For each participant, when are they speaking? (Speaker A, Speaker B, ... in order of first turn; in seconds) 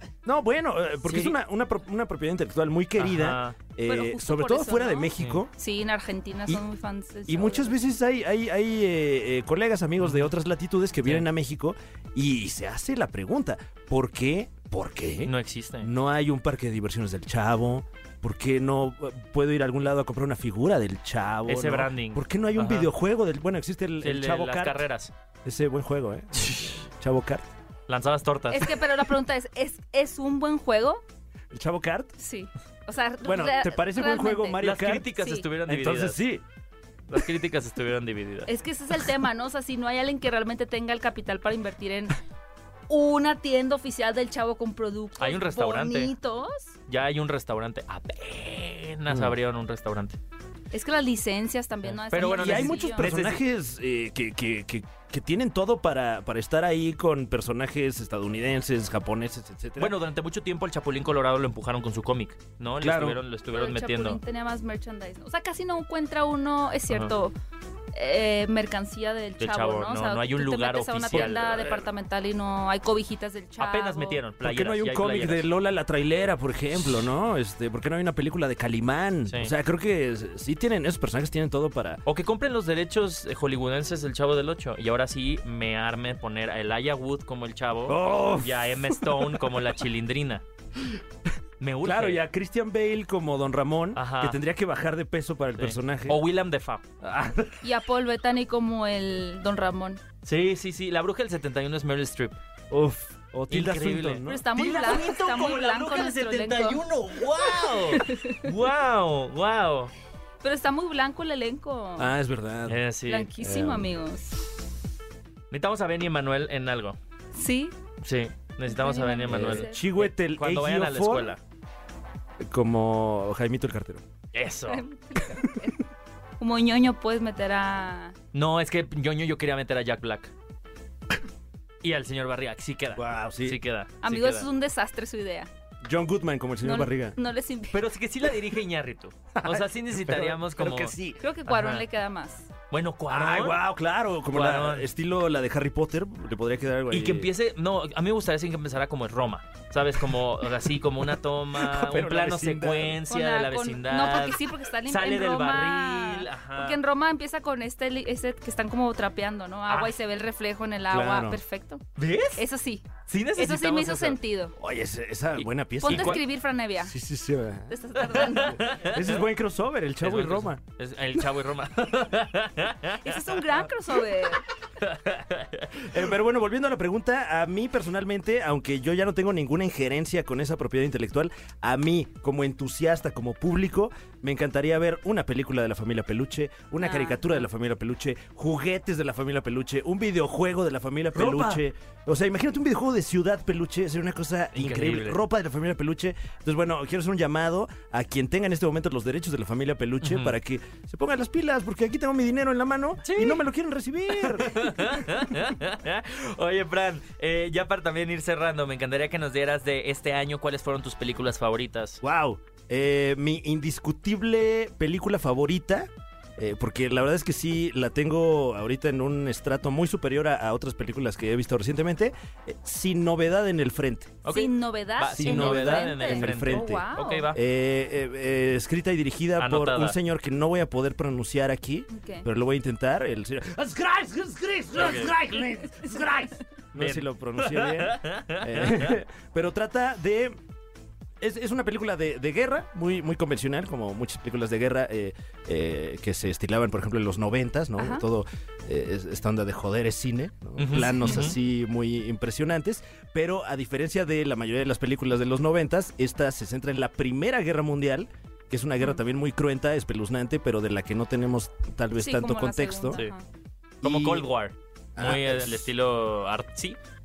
Speaker A: 0.2-5.5, 7.3-24.8, 25.4-27.5, 31.5-32.1, 33.2-35.1, 35.6-36.4, 49.1-49.4, 52.1-60.0, 62.8-63.2, 71.1-71.4, 74.4-82.0, 87.9-89.6, 91.8-96.2, 97.0-97.6, 102.7-104.6, 112.0-112.8, 113.3-113.9, 119.3-121.3, 122.4-124.0, 132.9-133.6, 135.8-137.2, 139.3-141.2, 143.1-147.3, 151.6-153.0, 160.9-161.4, 164.6-166.2, 166.8-170.6, 175.8-205.0, 212.0-224.2, 225.1-240.4, 241.2-263.0, 263.8-264.3, 265.0-265.7
Speaker B: 1.1-1.4, 3.0-3.6, 10.0-10.3, 15.2-15.9, 21.5-22.9, 24.0-25.1, 26.4-26.8, 27.9-28.8, 34.6-36.2, 37.1-38.5, 45.2-46.1, 46.9-50.2, 51.9-53.4, 59.8-64.2, 69.4-71.8, 73.6-75.5, 82.1-90.4, 91.6-92.2, 94.0-94.4, 95.6-96.8, 100.2-102.4, 103.5-109.9, 112.7-113.3, 115.5-117.0, 118.0-121.4, 124.3-124.8, 128.3-130.3, 131.8-134.5, 137.7-140.9, 141.5-141.8, 142.7-143.6, 144.3-144.9, 146.9-156.8, 159.7-160.0, 162.0-162.4, 163.1-164.2, 165.4-166.2, 168.1-169.2, 170.0-173.5, 174.8-175.8, 191.1-191.6, 194.6-195.2, 200.0-200.3, 203.0-203.4, 204.2-212.0, 224.2-227.4, 229.4-230.0, 234.8-235.1, 236.7-238.9, 250.6-251.4, 263.8-266.8
Speaker C: 3.9-7.8, 28.5-31.0, 32.2-34.6, 35.1-35.5, 38.5-42.1, 42.9-46.6, 50.7-53.1, 63.5-67.3, 67.9-74.2, 97.6-100.0, 104.3-106.8, 107.5-108.5, 110.4-112.1, 113.1-114.4, 117.3-117.8, 118.7-119.8, 124.7-125.8, 126.4-128.1, 134.0-135.5, 136.6-137.8, 141.2-142.5, 153.1-161.8, 162.4-164.6, 165.8-166.9, 167.7-168.8, 173.0-174.4, 186.8-187.4, 224.3-227.3, 231.9-232.3, 247.8-248.0, 262.0-263.2